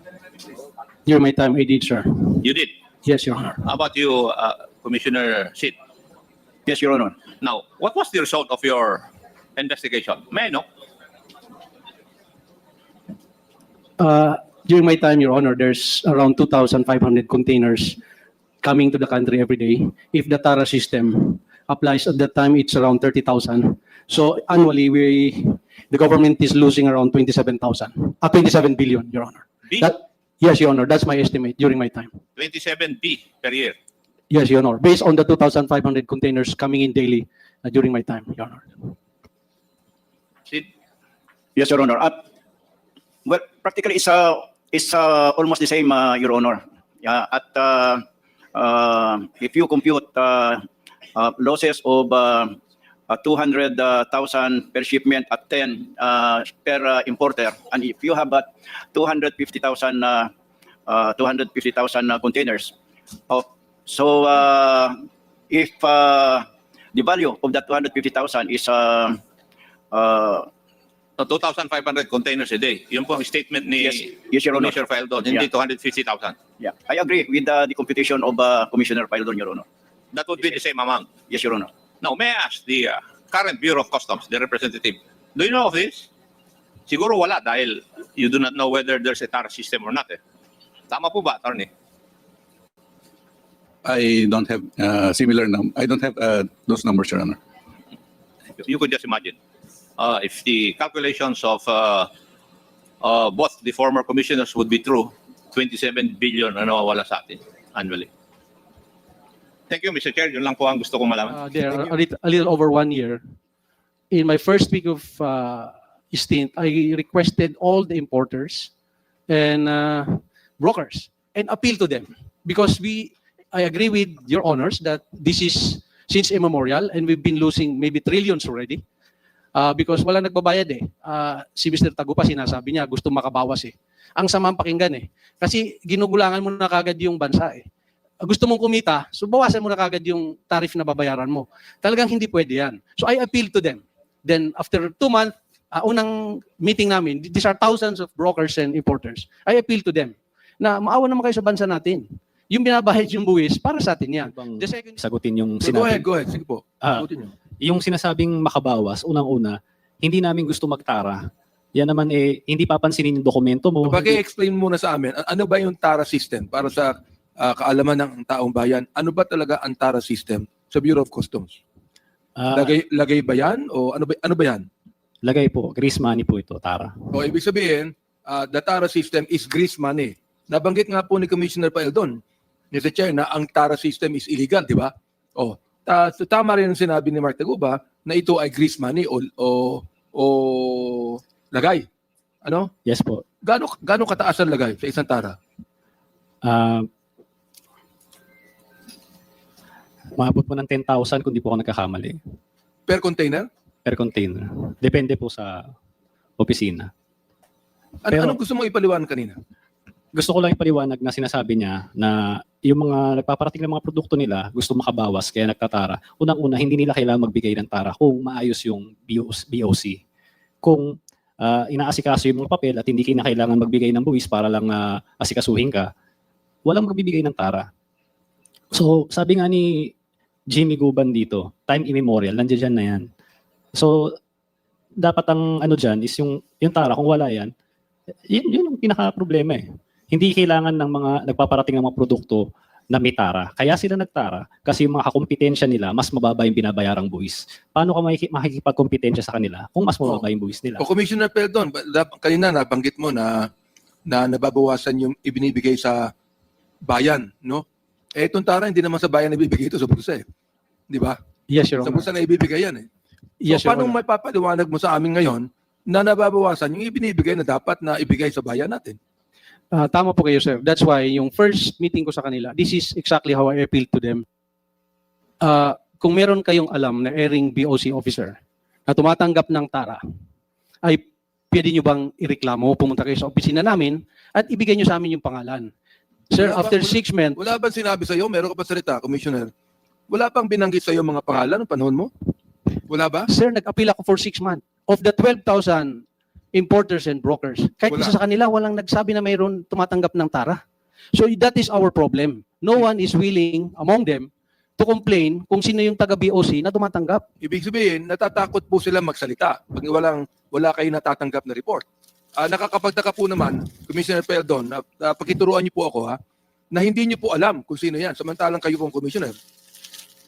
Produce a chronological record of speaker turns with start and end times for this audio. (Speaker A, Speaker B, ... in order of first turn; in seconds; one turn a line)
Speaker A: 1.1-2.5
Speaker B: 2.4-2.7
Speaker A: 3.0-3.7
Speaker B: 3.6-5.7
Speaker C: 6.7-7.2
Speaker B: 7.4-9.0
Speaker B: 9.6-10.6
Speaker A: 14.0-18.0
Speaker A: 18.6-32.1
Speaker B: 32.4-33.8
Speaker A: 34.3-38.9
Speaker C: 41.5-42.2
Speaker C: 43.2-50.6
Speaker C: 51.1-52.6
Speaker C: 53.1-60.3
Speaker C: 60.9-62.7
Speaker C: 63.3-65.0
Speaker C: 65.5-69.2
Speaker C: 69.9-70.5
Speaker B: 71.2-76.4
Speaker C: 73.8-75.5
Speaker C: 76.6-79.6
Speaker B: 80.1-81.1
Speaker C: 81.3-81.7
Speaker B: 82.0-86.1
Speaker B: 86.9-90.2
Speaker B: 90.9-91.7
Speaker D: 93.8-97.4
Speaker B: 98.6-99.4
Speaker B: 100.0-102.1
Speaker B: 103.0-108.1
Speaker B: 109.7-111.4
Speaker A: 111.3-113.2
Speaker A: 114.1-118.7
Speaker A: 119.3-128.8
Speaker A: 129.5-137.6
Speaker A: 138.2-155.0
Speaker E: 154.2-156.2
Speaker F: 155.6-157.3
Speaker E: 156.8-157.1
Speaker E: 157.6-161.2
Speaker E: 161.8-164.2
Speaker F: 163.8-171.6
Speaker E: 172.4-172.8
Speaker F: 172.5-174.6
Speaker E: 175.2-177.3
Speaker F: 177.1-182.2
Speaker F: 182.7-191.8
Speaker F: 192.4-192.7
Speaker E: 192.8-193.2
Speaker F: 193.4-195.3
Speaker E: 196.4-196.9
Speaker E: 200.2-202.2
Speaker F: 202.9-203.5
Speaker E: 203.8-205.6
Speaker E: 206.4-206.9
Speaker F: 208.0-209.4
Speaker E: 208.1-208.4
Speaker E: 210.1-220.0
Speaker E: 220.6-225.9
Speaker E: 226.6-227.7
Speaker E: 228.7-229.9
Speaker E: 230.5-233.1
Speaker E: 233.8-234.1
Speaker E: 235.0-237.5
Speaker E: 238.3-250.8
Speaker F: 250.8-253.5
Speaker F: 254.1-256.1
Speaker F: 256.9-260.2
Speaker F: 260.9-261.2
Speaker A: 261.5-262.1
Speaker F: 261.8-262.9
Speaker A: 263.4-264.0
Speaker F: 263.5-269.0
Speaker A: 269.7-274.2
Speaker A: 275.4-278.4
Speaker A: 278.9-280.0
Speaker A: 280.9-285.7
Speaker A: 286.3-287.4
Speaker F: 286.4-289.5
Speaker F: 290.1-292.1
Speaker F: 292.9-293.3
Speaker A: 293.3-296.0
Speaker A: 296.5-300.6
Speaker F: 297.9-298.1
Speaker A: 301.1-307.2
Speaker F: 307.4-311.9
Speaker F: 312.4-316.2
Speaker F: 316.7-319.4